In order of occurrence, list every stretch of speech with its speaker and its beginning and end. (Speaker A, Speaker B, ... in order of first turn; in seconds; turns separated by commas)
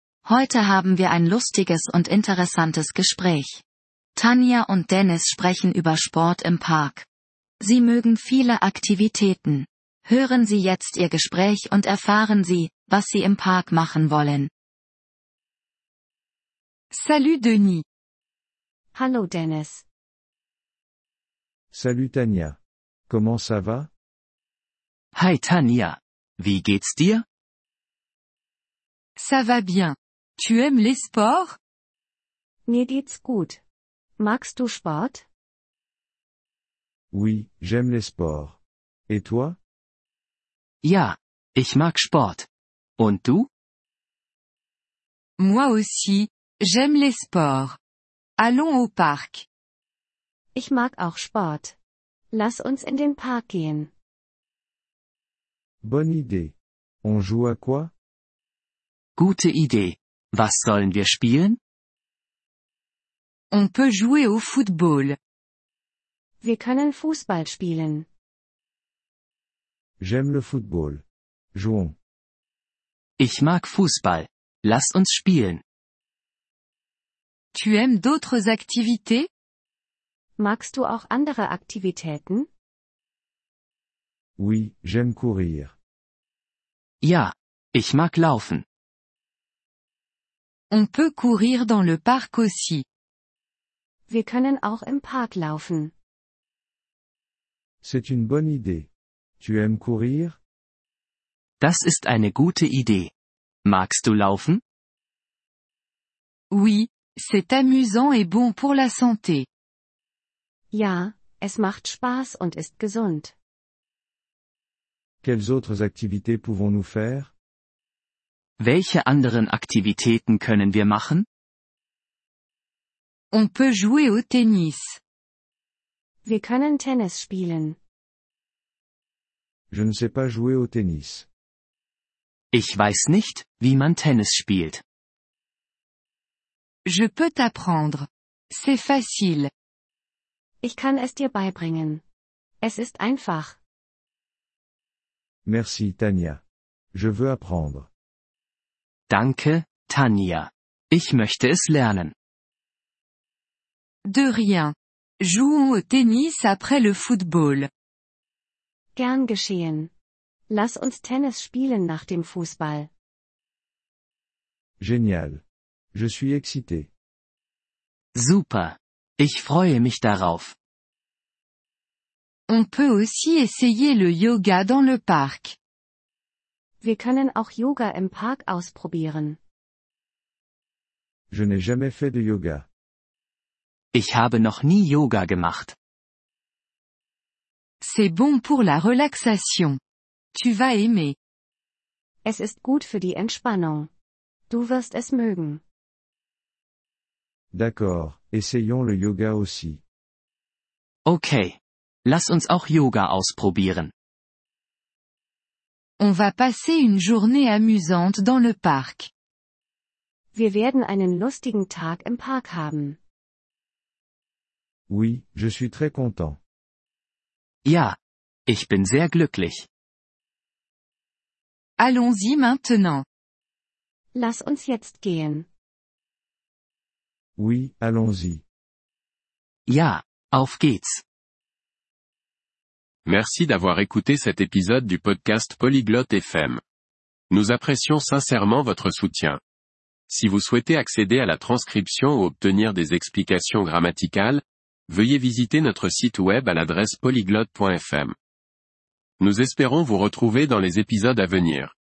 Speaker A: 0.2-3.6, Speaker A: 4.2-7.1, Speaker A: 7.6-14.5, Speaker B: 16.9-17.8, Speaker C: 18.9-19.9, Speaker D: 21.7-23.9, Speaker E: 25.1-27.2, Speaker B: 29.2-31.6, Speaker C: 32.7-33.6, Speaker C: 34.2-35.3, Speaker D: 37.1-39.6, Speaker E: 40.8-42.5, Speaker E: 43.0-43.5, Speaker B: 45.4-47.8, Speaker B: 48.4-49.5, Speaker C: 50.5-51.8, Speaker C: 52.3-53.9, Speaker D: 55.8-57.9, Speaker E: 59.2-61.6, Speaker B: 63.5-65.2, Speaker C: 66.4-68.1, Speaker D: 70.0-72.0, Speaker E: 73.2-75.6, Speaker B: 77.5-79.3, Speaker C: 80.4-82.5, Speaker D: 84.4-85.8, Speaker E: 87.0-88.7, Speaker B: 90.7-92.8, Speaker C: 94.1-95.9, Speaker D: 97.8-98.9, Speaker D: 99.4-100.4, Speaker E: 101.6-103.1, Speaker E: 103.7-104.6, Speaker B: 106.5-109.5, Speaker C: 110.7-113.3, Speaker D: 115.2-117.3, Speaker E: 118.6-121.3, Speaker B: 123.3-125.0, Speaker C: 126.2-127.8, Speaker D: 129.7-131.3, Speaker E: 132.5-134.8, Speaker B: 136.9-139.5, Speaker C: 140.6-142.0, Speaker C: 142.6-143.6, Speaker D: 145.5-146.4, Speaker D: 146.9-147.9, Speaker E: 149.1-152.1, Speaker B: 154.1-157.7, Speaker C: 159.0-159.9, Speaker C: 160.5-162.9, Speaker D: 164.8-166.9, Speaker E: 168.2-170.6, Speaker B: 172.5-175.6, Speaker C: 176.8-179.4, Speaker D: 181.3-182.7, Speaker E: 183.9-185.8, Speaker B: 187.8-189.8, Speaker B: 190.3-191.2, Speaker C: 192.2-193.9, Speaker C: 194.5-195.6, Speaker D: 197.5-199.8, Speaker E: 201.1-203.9, Speaker B: 206.0-209.1, Speaker C: 210.3-213.0, Speaker D: 214.9-216.4, Speaker E: 217.7-219.7, Speaker B: 221.8-223.1, Speaker C: 224.1-225.5, Speaker D: 227.4-228.4, Speaker E: 229.7-231.0, Speaker F: 233.1-236.6, Speaker F: 237.3-239.4, Speaker F: 240.1-248.1, Speaker F: 249.2-251.7